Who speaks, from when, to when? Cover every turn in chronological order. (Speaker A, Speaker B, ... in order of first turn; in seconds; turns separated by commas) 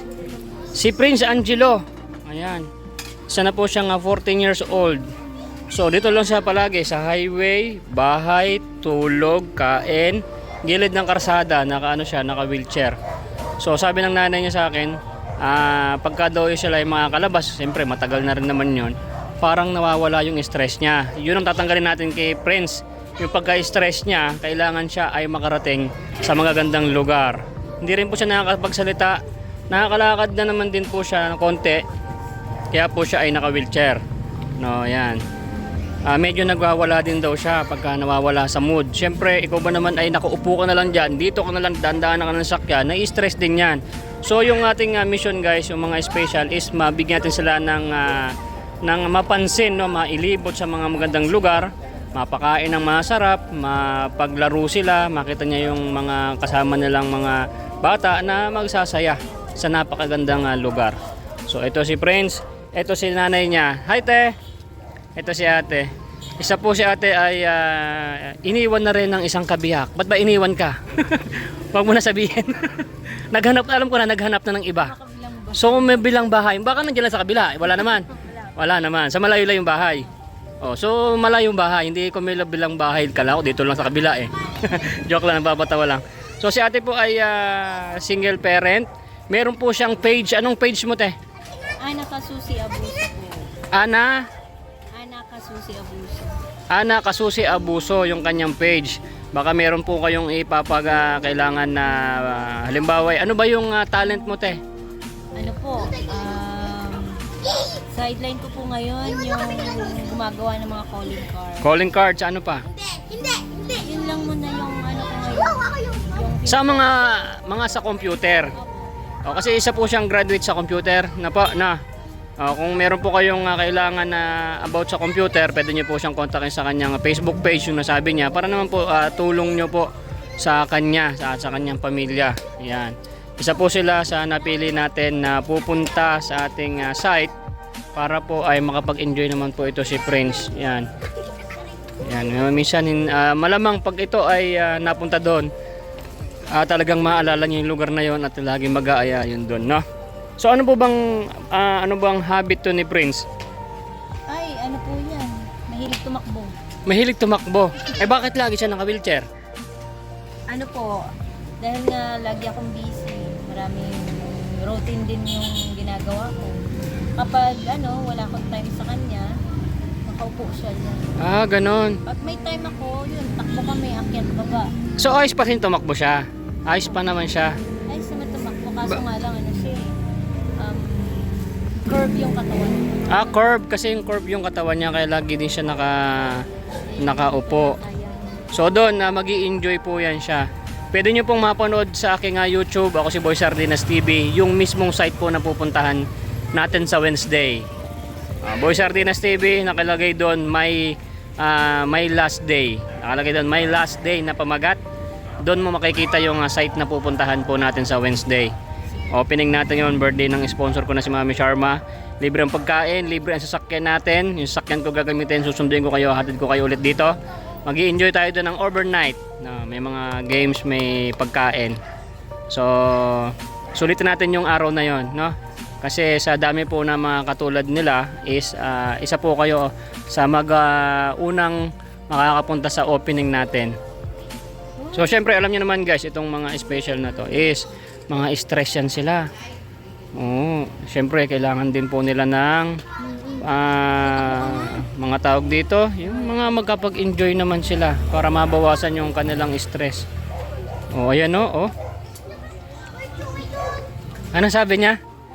Speaker A: 0.7-2.7, Speaker A: 3.3-5.0, Speaker A: 5.7-12.9, Speaker A: 13.6-29.2, Speaker A: 29.7-31.8, Speaker A: 32.7-34.0, Speaker A: 34.6-35.2, Speaker A: 36.1-48.3, Speaker A: 48.8-61.0, Speaker A: 61.5-64.3, Speaker A: 65.2-74.9, Speaker B: 74.8-76.2, Speaker A: 75.5-80.0, Speaker A: 80.6-91.2, Speaker B: 91.8-93.5, Speaker A: 93.7-94.2, Speaker B: 94.9-96.4, Speaker A: 96.7-104.6, Speaker B: 105.3-107.2, Speaker B: 107.9-111.7, Speaker A: 111.6-112.6, Speaker B: 113.2-116.8, Speaker A: 116.5-118.5, Speaker B: 118.5-118.9, Speaker A: 119.2-121.8, Speaker A: 122.4-129.9, Speaker A: 130.4-137.3, Speaker A: 137.9-140.9, Speaker A: 142.0-145.5, Speaker A: 146.5-149.8, Speaker A: 150.4-153.2, Speaker B: 154.3-156.5, Speaker A: 156.8-159.2, Speaker B: 160.5-161.1, Speaker B: 161.6-166.6, Speaker B: 167.2-169.3, Speaker B: 170.1-171.2, Speaker A: 171.2-172.0, Speaker B: 172.1-174.7, Speaker A: 175.0-177.5, Speaker B: 177.9-179.9, Speaker B: 180.6-183.4, Speaker A: 183.1-186.4, Speaker B: 186.9-188.5, Speaker A: 187.0-187.7, Speaker A: 188.5-196.0, Speaker A: 196.5-197.7, Speaker A: 198.4-204.8, Speaker A: 205.4-208.5, Speaker A: 209.1-217.1, Speaker A: 217.7-221.8, Speaker A: 222.5-233.7, Speaker B: 234.8-235.1, Speaker A: 234.9-239.3, Speaker A: 240.1-242.7, Speaker B: 243.0-243.4, Speaker A: 243.4-250.0, Speaker B: 244.1-244.8, Speaker A: 250.9-251.7, Speaker A: 254.3-255.0